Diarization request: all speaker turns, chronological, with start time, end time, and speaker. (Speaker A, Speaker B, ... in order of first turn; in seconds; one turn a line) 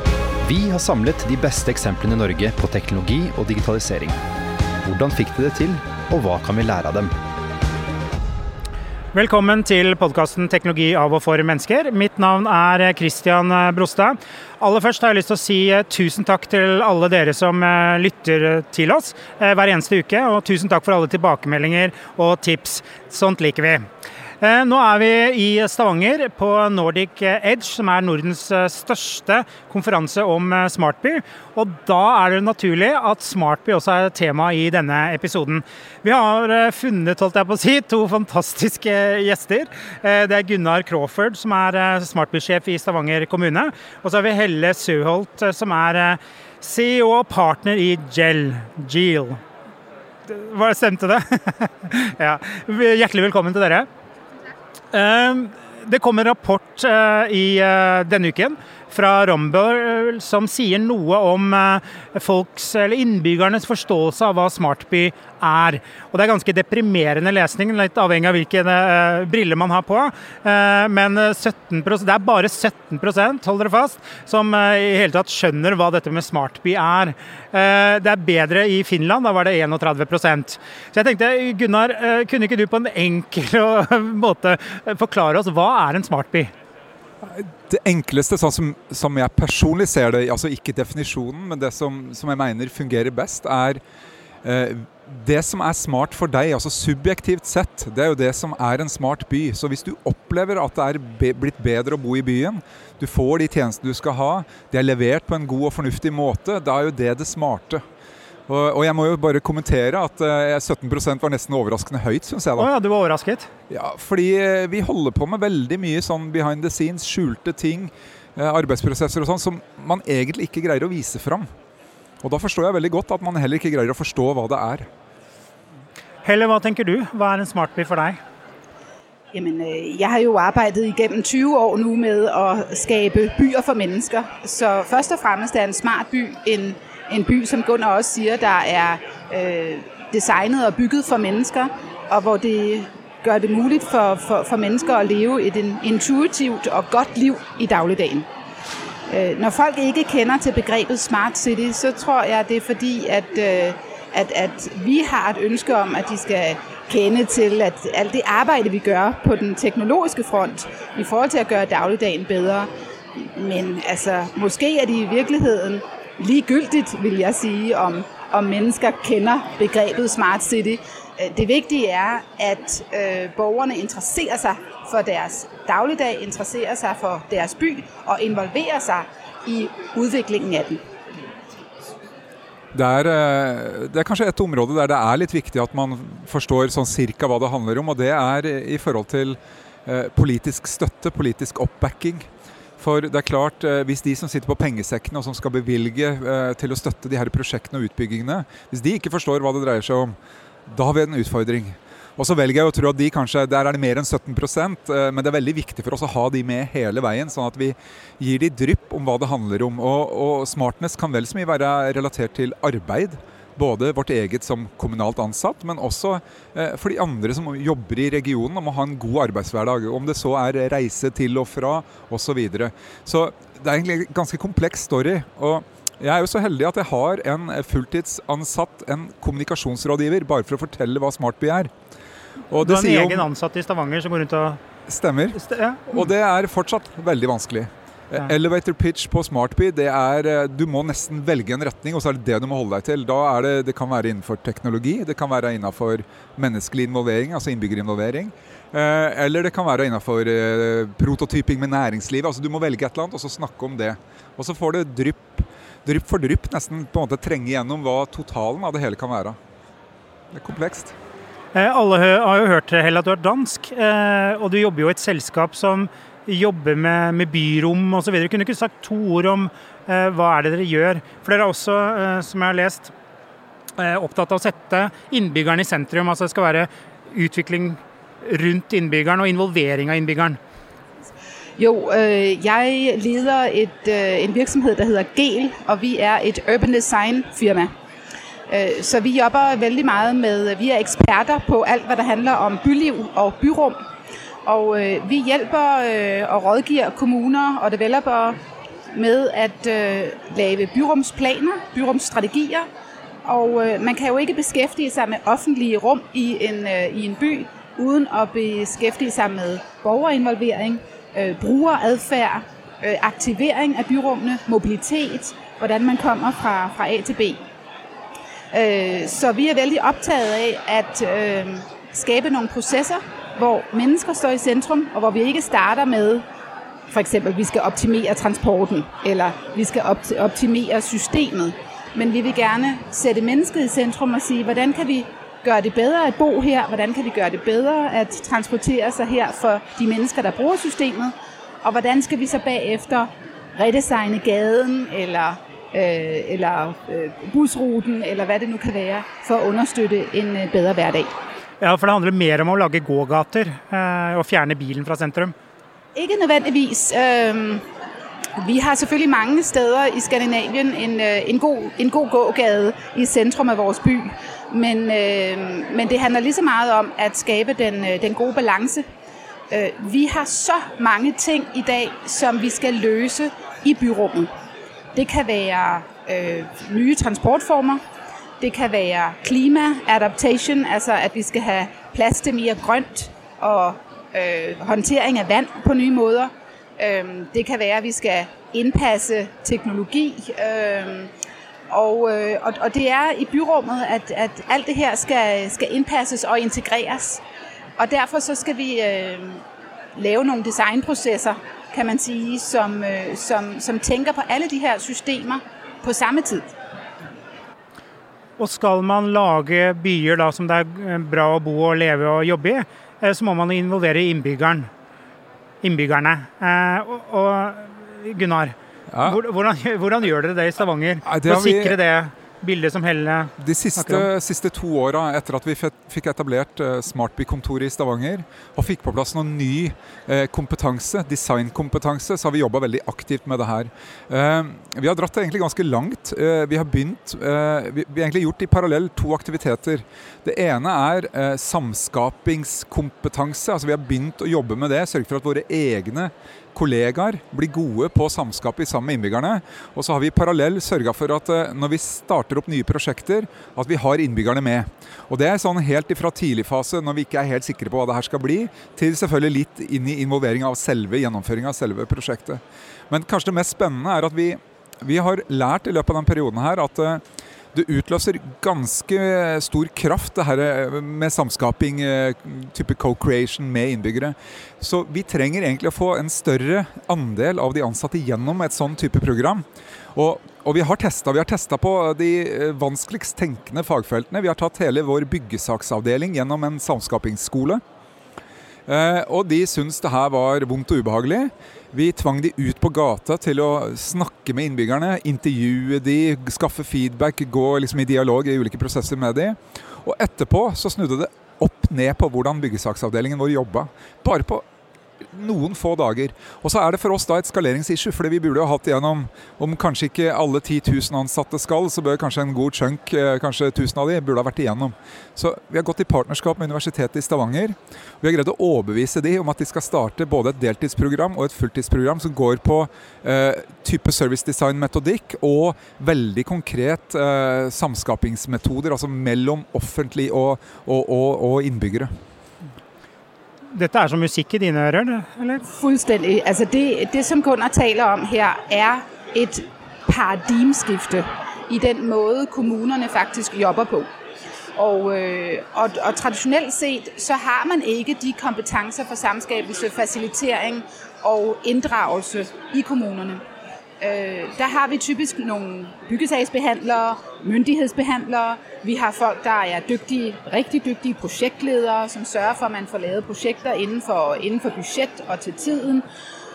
Speaker A: 0.4-4.2
Speaker A: 4.8-7.2
Speaker B: 9.1-23.8
Speaker B: 24.4-49.4
Speaker B: 50.3-53.9
Speaker B: 54.9-86.5
Speaker C: 87.2-93.8
Speaker C: 94.4-107.8
Speaker C: 108.5-112.7
Speaker B: 112.6-113.5
Speaker C: 113.7-121.5
Speaker C: 122.2-124.9
Speaker B: 126.2-128.2
Speaker D: 129.3-148.3
Speaker D: 149.1-180.8
Speaker C: 182.7-192.3
Speaker C: 192.8-200.2
Speaker C: 200.7-231.7
Speaker C: 232.5-233.3
Speaker B: 232.6-234.6
Speaker C: 234.9-259.4
Speaker B: 235.4-236.0
Speaker C: 260.3-260.9
Speaker B: 261.5-272.9
Speaker B: 273.8-280.4
Speaker D: 281.6-287.7
Speaker D: 288.5-293.8
Speaker D: 294.5-298.4
Speaker D: 298.9-302.7
Speaker D: 303.2-317.4
Speaker D: 318.5-326.2
Speaker D: 326.9-351.1
Speaker B: 351.6-355.3
Speaker D: 355.9-357.6
Speaker D: 358.4-368.9
Speaker D: 369.5-374.3
Speaker D: 374.9-377.8
Speaker D: 378.4-391.1
Speaker D: 391.7-397.2
Speaker D: 397.8-399.4
Speaker D: 400.0-406.5
Speaker B: 408.4-414.7
Speaker B: 415.6-424.1
Speaker C: 418.9-419.2
Speaker C: 421.1-421.8
Speaker C: 423.4-467.0
Speaker C: 467.5-487.6
Speaker C: 488.7-504.4
Speaker C: 505.0-531.9
Speaker B: 533.5-535.4
Speaker D: 535.5-543.9
Speaker D: 544.6-553.2
Speaker D: 553.8-565.9